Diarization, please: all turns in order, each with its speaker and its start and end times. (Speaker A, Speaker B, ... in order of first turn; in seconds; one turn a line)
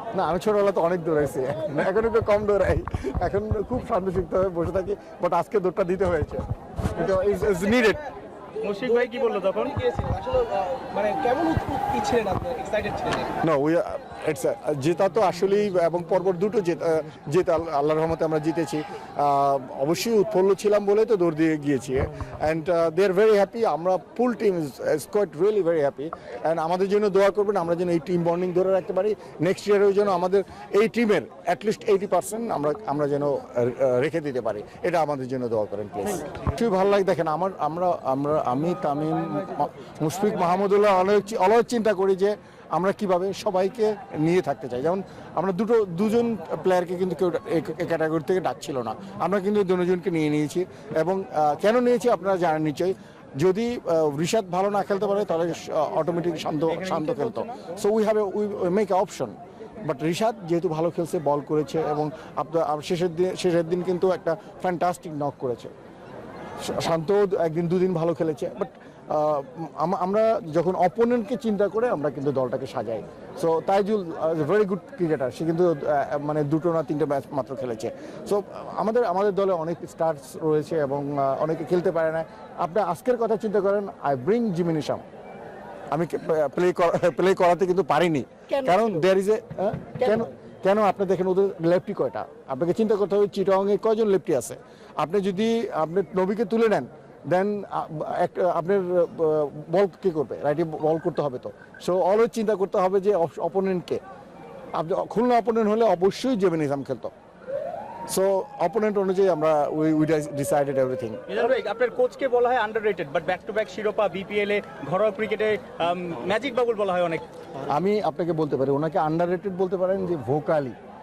Speaker A: 0.1-8.0
Speaker B: 8.6-9.7
Speaker C: 8.8-13.3
Speaker A: 13.4-65.7
Speaker B: 56.7-57.6
Speaker A: 66.6-85.0
Speaker A: 85.9-104.0
Speaker A: 104.7-107.1
Speaker A: 108.1-111.3
Speaker B: 111.3-117.2
Speaker A: 117.6-120.8